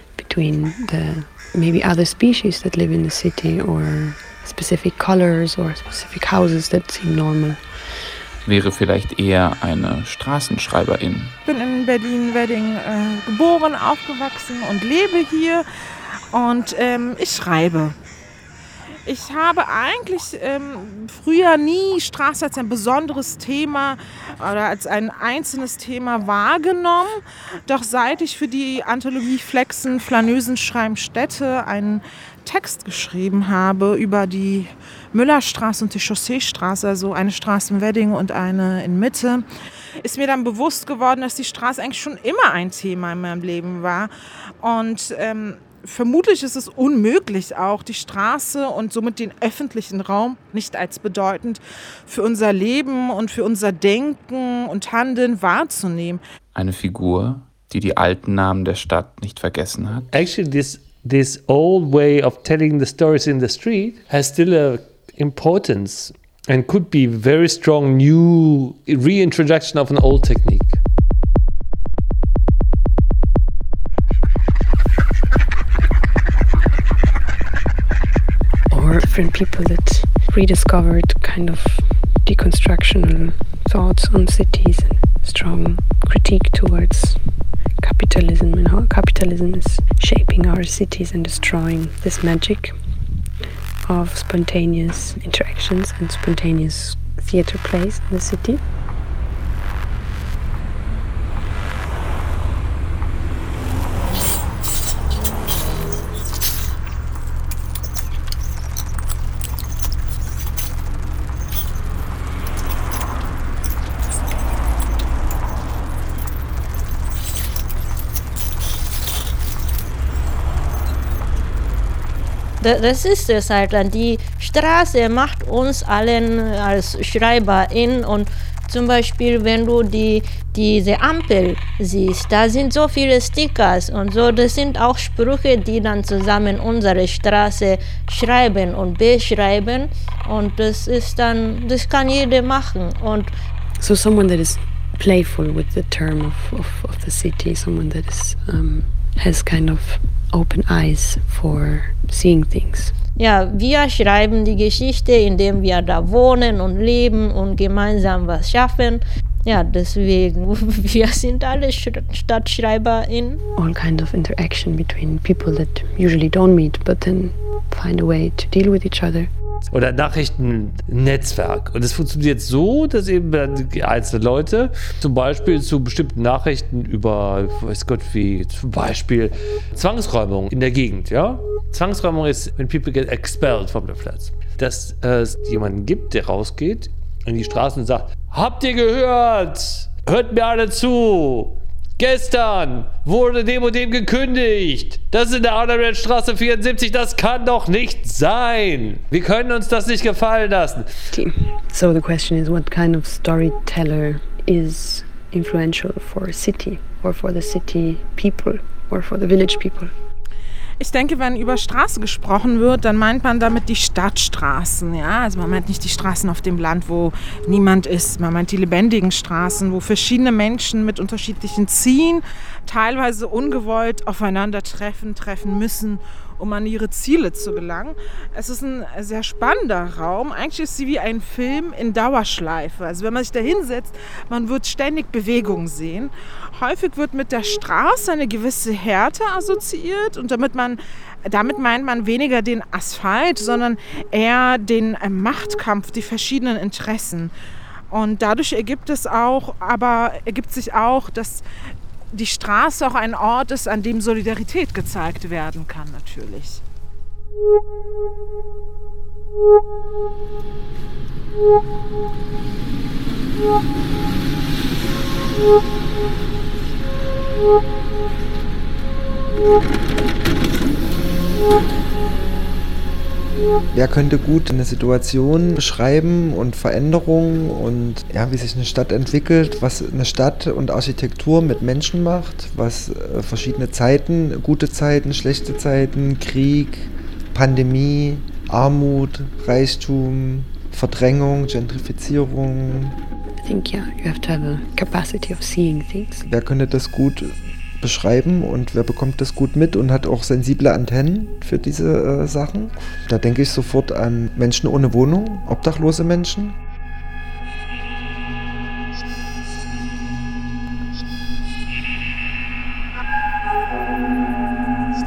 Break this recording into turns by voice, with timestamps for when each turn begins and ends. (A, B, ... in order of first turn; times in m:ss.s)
0:00.1-0:07.6 A
0:08.5-0:11.4 B
0:11.5-0:15.6 C
0:16.3-0:18.0 C
0:19.0-0:39.5 C
0:40.0-0:56.2 C
0:56.6-1:00.1 B
1:00.1-1:10.8 D
1:18.7-1:27.2 A
1:27.8-1:32.8 A
1:33.9-1:38.6 A
2:02.6-2:23.3 E
2:23.8-2:32.9 A
2:33.2-2:43.4 E
2:43.6-2:49.3 A
2:49.7-3:20.9 D
3:21.1-3:29.9 A
3:30.8-4:07.3 C
4:07.9-4:11.4 C
4:12.1-4:16.6 C
4:33.7-4:53.0 F
4:53.4-4:56.2 A
4:56.3-5:06.6 F